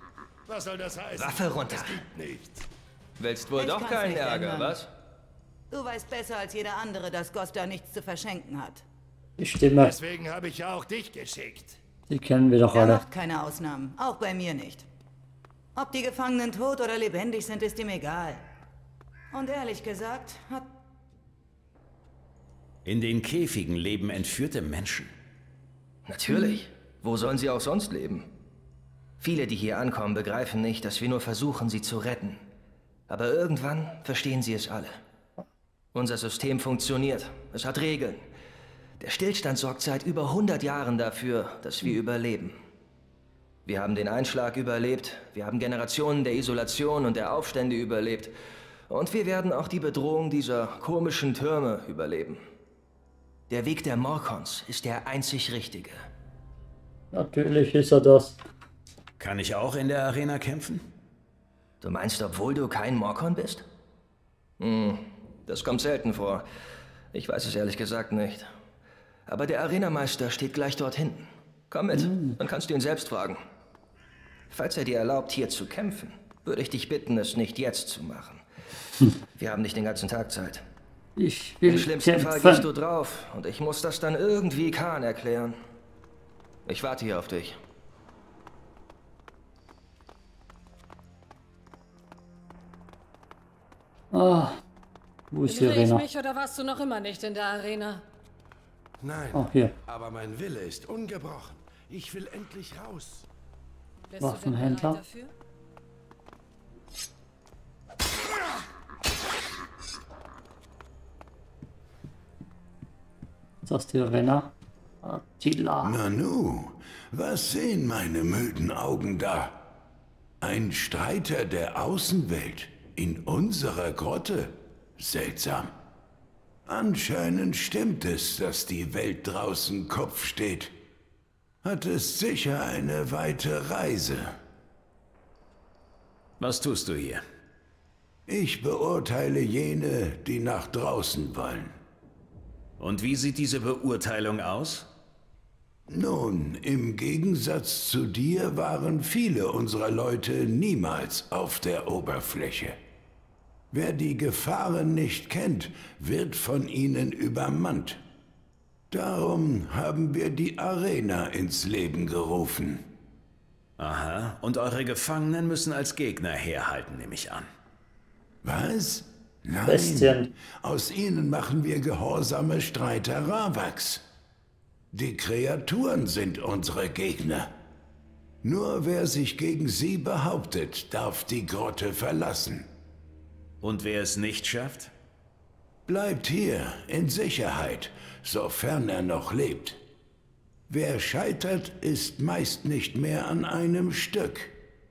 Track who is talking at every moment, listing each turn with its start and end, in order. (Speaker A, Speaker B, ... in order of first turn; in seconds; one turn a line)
Speaker A: 0.5-2.6
Speaker B: 1.2-2.0
Speaker B: 3.2-4.9
Speaker C: 3.5-4.8
Speaker C: 5.7-8.8
Speaker D: 9.4-9.9
Speaker A: 9.8-11.8
Speaker D: 12.1-13.0
Speaker C: 12.7-14.8
Speaker C: 15.8-18.4
Speaker C: 19.3-20.7
Speaker E: 22.8-25.1
Speaker B: 26.1-28.3
Speaker B: 29.2-32.4
Speaker B: 33.1-34.9
Speaker B: 35.9-38.2
Speaker B: 39.0-42.5
Speaker B: 43.6-48.3
Speaker B: 48.9-52.4
Speaker B: 53.5-56.0
Speaker D: 57.1-58.4
Speaker E: 59.2-60.8
Speaker B: 61.8-63.6
Speaker B: 64.6-66.4
Speaker B: 67.1-68.5
Speaker B: 69.3-73.4
Speaker D: 72.0-72.3
Speaker B: 74.5-78.4
Speaker B: 79.4-80.6
Speaker D: 81.2-82.6
Speaker B: 81.6-85.5
Speaker B: 86.7-87.5
Speaker D: 94.1-94.6
Speaker D: 95.3-96.0
Speaker F: 95.5-98.0
Speaker G: 99.0-103.2
Speaker D: 99.3-99.7
Speaker F: 104.1-105.3
Speaker D: 104.2-105.0
Speaker D: 113.6-114.5
Speaker D: 115.0-115.9
Speaker H: 115.8-119.6
Speaker H: 120.4-125.7
Speaker H: 126.7-130.7
Speaker H: 131.6-134.3
Speaker E: 136.4-137.2
Speaker H: 138.3-141.7
Speaker E: 142.8-144.9
Speaker H: 145.9-152.8
Speaker H: 153.7-158.0
Speaker H: 158.9-162.8
Speaker E: 163.8-167.5
Speaker H: 168.4-174.0
Speaker D: 169.7-170.3
Speaker H: 174.9-177.5
Speaker H: 178.4-182.7
Speaker E: 183.6-184.9
Speaker H: 185.9-189.8
Speaker H: 190.7-194.5